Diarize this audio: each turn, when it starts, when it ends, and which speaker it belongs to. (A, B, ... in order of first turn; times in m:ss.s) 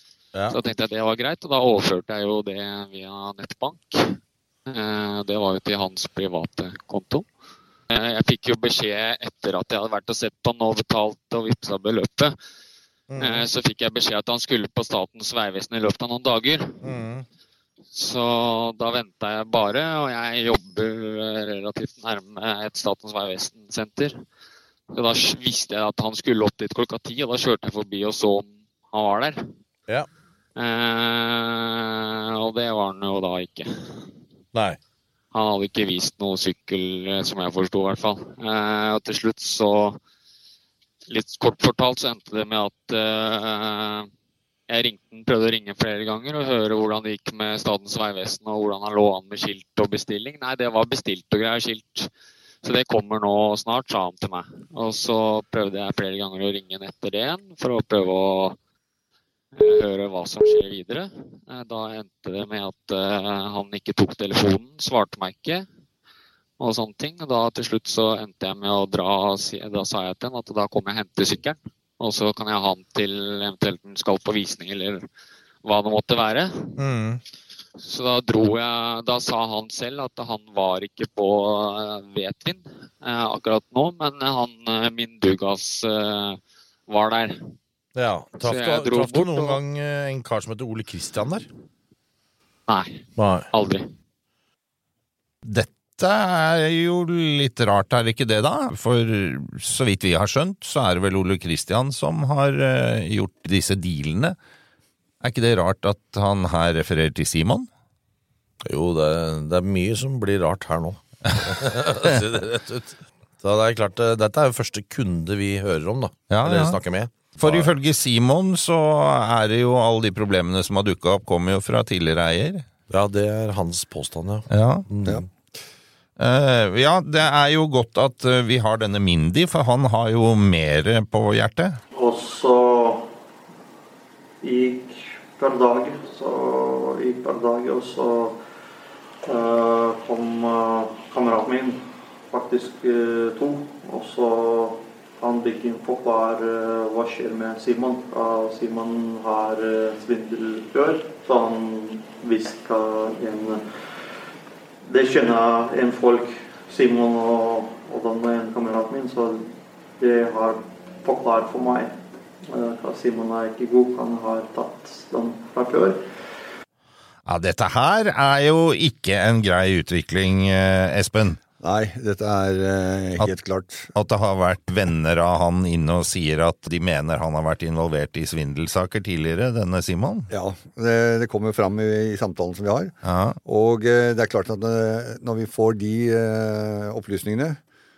0:00.5-0:07.2 A
0:07.9-0:12.3 A
0:13.1-0:13.5 B
0:13.2-0:16.9 A
0:16.8-0:17.2 B
0:17.9-0:24.2 A
0:24.9-0:29.4 A
0:30.6-0:34.0 A
0:34.5-0:34.8 B
0:35.3-0:40.0 A
0:41.1-0:44.1 A
0:44.7-0:52.1 A
0:52.6-0:58.6 A
0:59.5-1:05.7 A
1:06.6-1:15.0 A
1:15.6-1:16.8 A
1:16.8-1:17.2 B
1:17.8-1:27.5 A
1:27.9-1:31.5 B
1:28.4-1:29.6 A
1:32.7-1:33.9 A
1:33.2-1:33.5 B
1:35.4-1:44.4 C
1:45.2-1:47.7 C
1:48.6-1:57.7 B
1:56.3-1:56.8 C
1:57.3-2:02.7 C
2:02.9-2:05.2 B
2:04.5-2:04.8 C
2:06.2-2:11.8 C
2:11.9-2:13.0 D
2:14.4-2:18.3 D
2:19.2-2:33.6 D
2:34.8-2:39.4 D
2:40.0-2:41.9 D
2:42.5-2:46.0 D
2:47.2-2:51.4 C
2:51.6-2:53.9 E
2:53.9-3:00.3 C
3:00.3-3:07.6 E
3:03.0-3:03.4 C